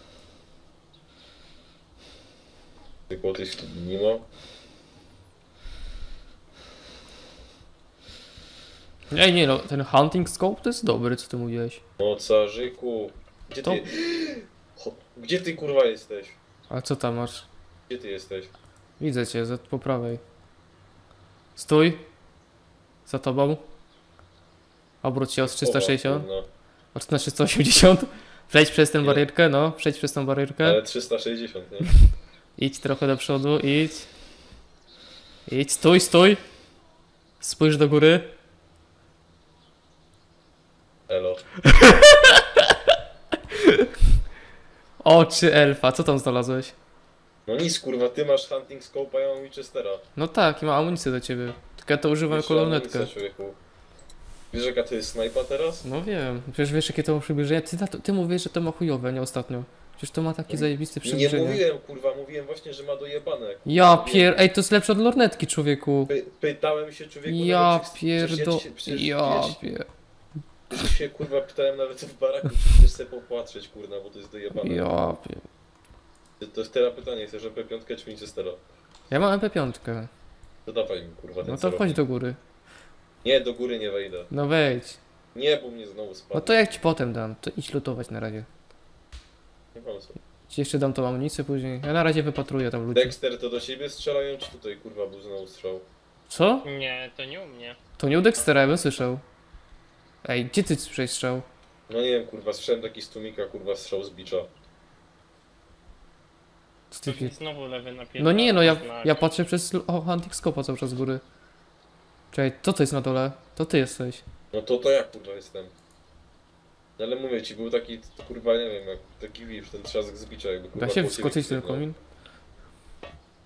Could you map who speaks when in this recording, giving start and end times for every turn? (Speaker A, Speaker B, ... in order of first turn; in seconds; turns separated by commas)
Speaker A: 3.1-4.2, Speaker B: 9.1-11.8, Speaker A: 12.0-16.4, Speaker B: 16.7-17.5, Speaker A: 17.9-18.5, Speaker B: 19.0-20.2, Speaker B: 21.6-22.0, Speaker B: 23.1-23.6, Speaker B: 25.0-26.3, Speaker A: 25.4-26.5, Speaker B: 26.9-30.8, Speaker A: 29.0-29.3, Speaker A: 30.6-31.9, Speaker B: 32.6-34.1, Speaker B: 35.5-36.4, Speaker B: 37.4-38.3, Speaker A: 41.1-41.4, Speaker B: 41.7-42.6, Speaker B: 43.5-43.8, Speaker B: 45.0-46.8, Speaker A: 47.5-50.0, Speaker B: 50.2-53.1, Speaker A: 52.3-53.6, Speaker A: 54.5-55.9, Speaker B: 55.8-61.6, Speaker A: 60.5-64.3, Speaker B: 63.7-66.1, Speaker A: 66.1-69.6, Speaker B: 67.3-69.9, Speaker A: 70.7-75.1, Speaker B: 74.6-75.5, Speaker A: 76.4-78.6, Speaker B: 79.1-80.1, Speaker A: 80.7-82.0, Speaker B: 81.4-82.4, Speaker A: 83.2-84.3, Speaker B: 84.3-85.0, Speaker A: 85.3-86.8, Speaker B: 86.3-88.5, Speaker A: 89.8-90.2, Speaker B: 90.5-93.2, Speaker A: 92.9-95.9, Speaker B: 96.3-96.7, Speaker C: 96.6-97.8, Speaker B: 98.0-99.2, Speaker B: 100.2-101.5, Speaker A: 101.9-104.5, Speaker B: 106.9-107.3, Speaker C: 107.1-109.3, Speaker B: 108.2-111.2, Speaker B: 112.3-114.2, Speaker A: 114.5-115.7, Speaker A: 117.0-121.8, Speaker B: 120.8-122.0